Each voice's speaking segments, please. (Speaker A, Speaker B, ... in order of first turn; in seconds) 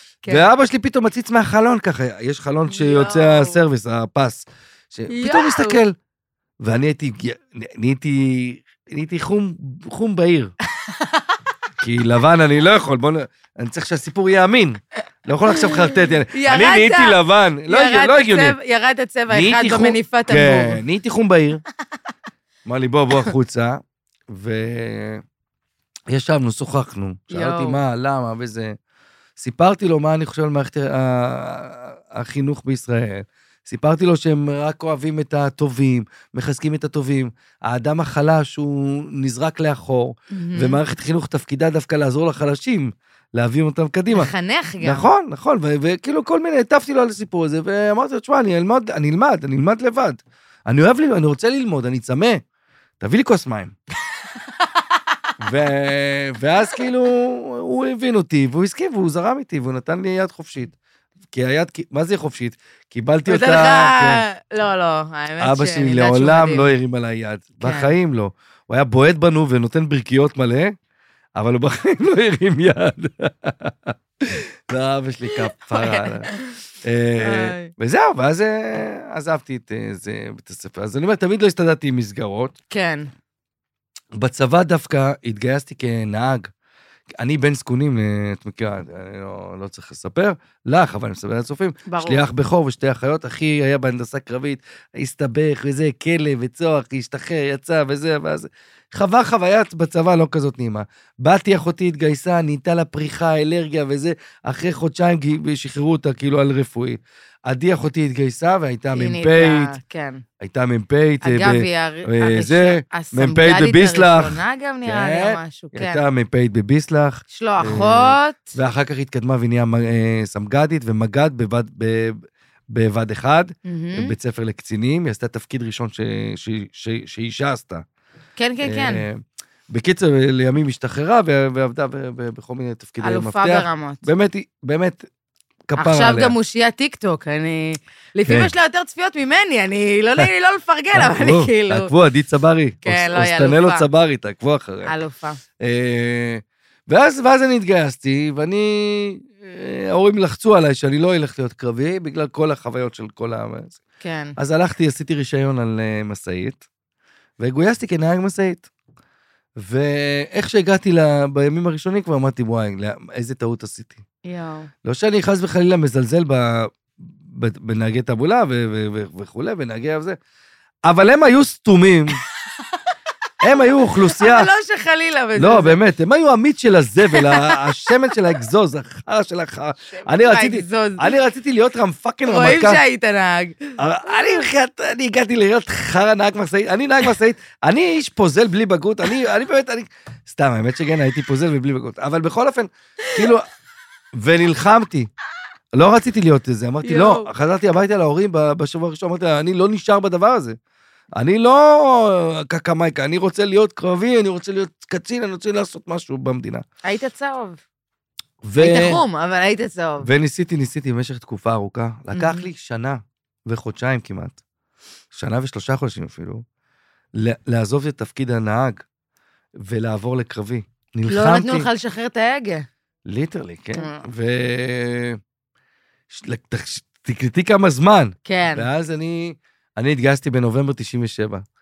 Speaker A: 0.3-5.9, 6.6-10.5, 11.8-18.6, 19.3-21.6, 22.6-25.2, 26.1-28.8, 29.4-44.3, 44.8-52.4, 53.0-53.8, 55.4-60.7, 61.3-64.2, 65.4-70.8, 71.4-76.3, 76.8-82.5, 84.1-86.5, 87.2-109.8, 110.4-127.8, 128.6-135.1, 135.7-136.4, 138.3-138.5, 140.9-144.9, 145.6-153.8, 154.4-156.6, 157.4-158.7, 159.6-164.0, 164.8-170.2, 170.9-172.2, 173.4-174.5, 175.4-182.8, 183.8-193.4, 194.1-195.1, 195.7-200.6, 201.1-206.6, 208.4-209.0, 210.0-214.4, 215.1-216.4, 217.1-218.8, 219.6-221.7, 223.1-225.2, 226.1-231.4
Speaker B: 2.7-3.6, 5.1-5.8, 10.8-11.3, 15.5-20.8, 27.3-27.8, 40.3-40.8, 44.1-45.1, 63.3-66.7, 67.6-67.9, 75.6-76.5, 77.2-77.7, 82.7-83.1, 91.9-92.2, 108.9-110.2, 111.2-116.0, 117.3-118.5, 123.7-124.1, 128.4-129.0, 133.0-134.1, 135.8-141.9, 142.8-143.9, 144.8-145.4, 154.0-154.4, 164.2-164.7, 173.5-175.8, 177.1-177.9, 179.9-181.1, 182.3-183.8, 196.8-197.3, 206.8-207.6, 208.6-210.1, 212.1-212.4, 221.1-222.7, 223.8-224.0, 228.3-228.7